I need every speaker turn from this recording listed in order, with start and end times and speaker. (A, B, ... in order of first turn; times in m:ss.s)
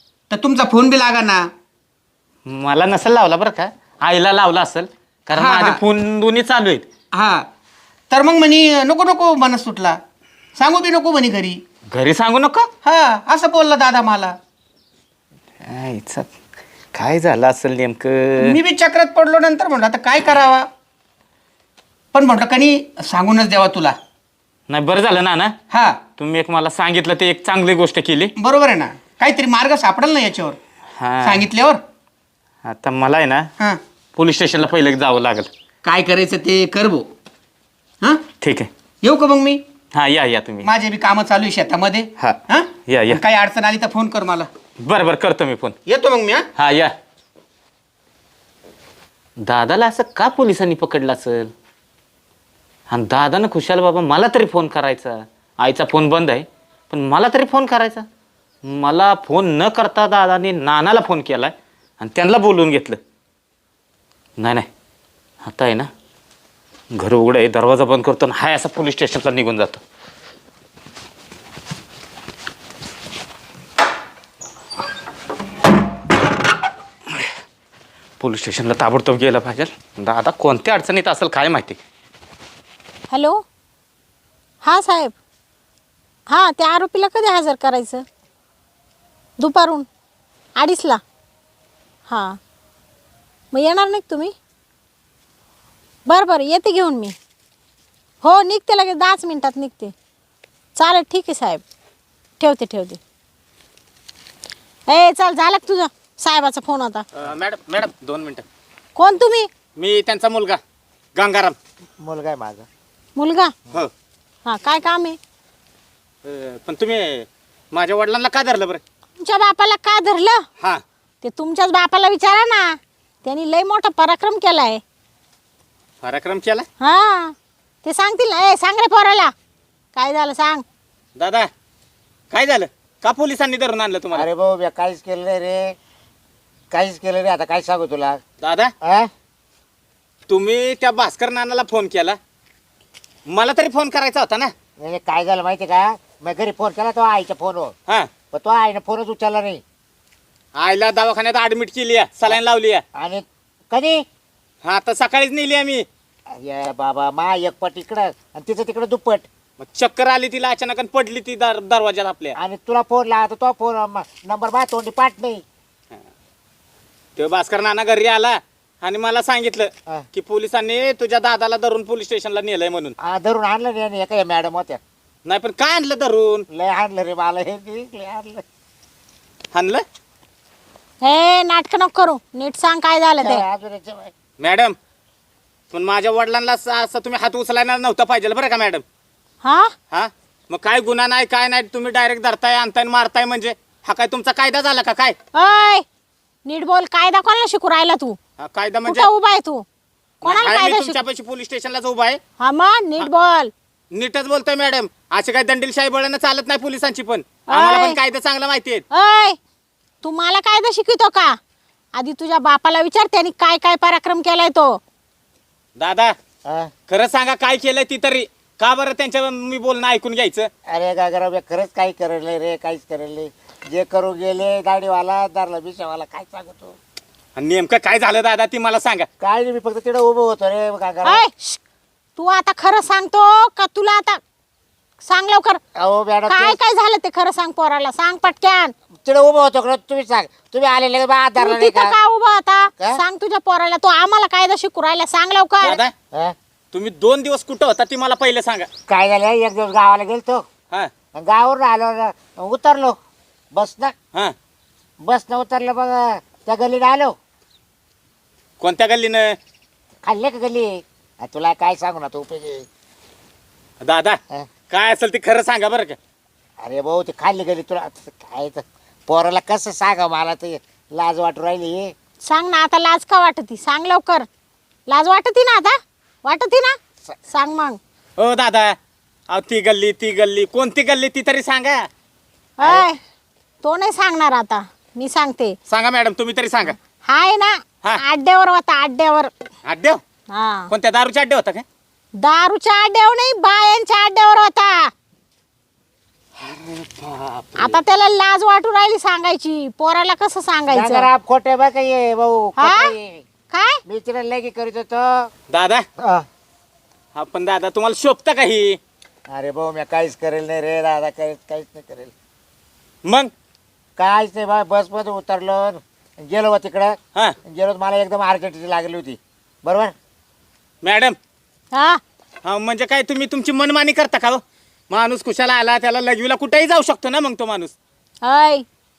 0:00.3-0:01.4 A
0:02.5-0:06.9 B
0:05.3-0:05.8 A
0:07.1-0:07.4 A
0:08.1-0:10.0 A
0:10.6-0:11.6 A
0:11.9-0:12.7 B
0:12.8-0:14.3 A
0:15.6-0:16.3 B
0:16.9-0:18.6 B
0:18.4-0:20.6 A
0:22.1-0:23.9 A
0:24.7-0:25.6 B
0:25.7-0:26.0 A
0:26.2-0:28.3 B
0:28.4-0:30.6 A
0:31.0-0:31.4 B
0:31.2-0:31.8 A
0:32.6-0:33.5 B
0:34.2-0:35.5 B
0:35.8-0:37.0 A
0:38.4-0:38.7 B
0:39.0-0:39.6 A
0:39.9-0:40.7 B
0:40.6-0:44.5 A
0:42.9-0:43.2 B
0:44.8-0:45.8 B
0:45.9-0:46.4 A
0:46.6-0:46.9 B
0:49.4-0:51.5 B
0:52.9-0:58.0 B
0:58.6-1:03.0 B
1:04.4-1:04.7 B
1:05.4-1:05.9 B
1:06.9-1:09.8 B
1:18.2-1:21.8 B
1:23.1-1:23.4 C
1:24.6-1:25.1 C
1:26.3-1:28.0 C
1:29.4-1:29.8 C
1:30.6-1:31.0 C
1:32.1-1:32.4 C
1:33.5-1:34.3 C
1:36.1-1:37.1 C
1:38.2-1:39.9 C
1:40.8-1:41.6 C
1:42.4-1:43.0 C
1:44.9-1:47.0 C
1:47.2-1:48.4 B
1:49.0-1:49.5 C
1:49.8-1:50.6 B
1:51.1-1:51.6 B
1:52.0-1:52.7 D
1:53.2-1:53.5 C
1:54.4-1:55.2 C
1:56.2-1:58.8 B
1:59.2-2:00.4 C
2:01.2-2:04.8 C
2:06.0-2:06.6 B
2:06.8-2:09.3 C
2:09.9-2:10.6 C
2:11.2-2:11.5 B
2:12.3-2:14.2 B
2:14.1-2:15.8 D
2:16.7-2:18.2 D
2:18.4-2:18.7 B
2:18.8-2:19.1 D
2:20.3-2:22.2 B
2:23.3-2:24.5 B
2:24.8-2:27.7 D
2:28.3-2:29.6 D
2:30.6-2:32.8 B
2:32.9-2:34.0 D
2:34.6-2:35.8 B
2:36.3-2:39.3 D
2:39.6-2:42.4 B
2:42.3-2:45.4 D
2:47.2-2:52.9 B
2:53.0-2:54.8 D
2:55.2-2:56.4 B
2:56.5-2:58.4 D
2:59.5-2:59.8 B
3:01.0-3:03.4 C
3:03.2-3:04.1 D
3:04.4-3:04.8 B
3:05.7-3:08.8 B
3:09.4-3:09.7 C
3:09.9-3:15.2 B
3:15.3-3:15.8 C
3:16.4-3:18.2 C
3:18.4-3:19.1 B
3:18.8-3:19.6 C
3:20.2-3:21.0 C
3:20.2-3:22.2 B
3:22.4-3:23.5 C
3:23.9-3:28.8 B
3:27.5-3:28.0 C
3:28.9-3:29.4 C
3:30.0-3:31.4 C
3:31.9-3:34.8 C
3:35.8-3:36.1 B
3:36.4-3:36.7 D
3:36.9-3:40.5 B
3:40.7-3:46.8 D
3:47.4-3:49.1 B
3:49.2-3:51.2 D
3:51.0-3:51.6 C
3:52.2-3:54.2 C
3:55.0-3:55.6 C
3:55.8-3:56.6 D
3:56.3-3:58.7 C
3:59.0-4:01.9 D
4:01.4-4:05.8 C
4:05.6-4:05.9 B
4:06.7-4:08.7 B
4:08.9-4:10.4 D
4:11.1-4:13.0 D
4:13.5-4:13.9 D
4:15.0-4:17.1 D
4:18.6-4:19.4 B
4:20.0-4:22.6 D
4:23.8-4:24.2 B
4:24.7-4:26.0 B
4:26.6-4:31.9 D
4:32.2-4:34.2 C
4:34.9-4:36.7 C
4:37.3-4:37.8 C
4:38.2-4:38.7 B
4:39.3-4:41.9 B
4:42.6-4:43.0 C
4:43.6-4:45.5 C
4:45.7-4:46.8 B
4:47.0-4:49.3 C
4:49.6-4:50.0 B
4:50.3-4:50.7 C
4:50.7-4:51.6 B
4:52.2-4:54.9 C
4:56.4-4:57.8 B
4:57.6-5:01.1 C
5:00.7-5:03.2 D
5:02.6-5:02.9 C
5:03.5-5:03.8 C
5:03.8-5:05.3 D
5:05.5-5:05.8 B
5:06.0-5:06.2 D
5:07.1-5:08.8 B
5:09.3-5:12.1 D
5:13.0-5:13.3 B
5:14.0-5:19.9 D
5:20.8-5:21.2 B
5:21.7-5:22.0 C
5:22.4-5:27.7 B
5:28.2-5:28.6 C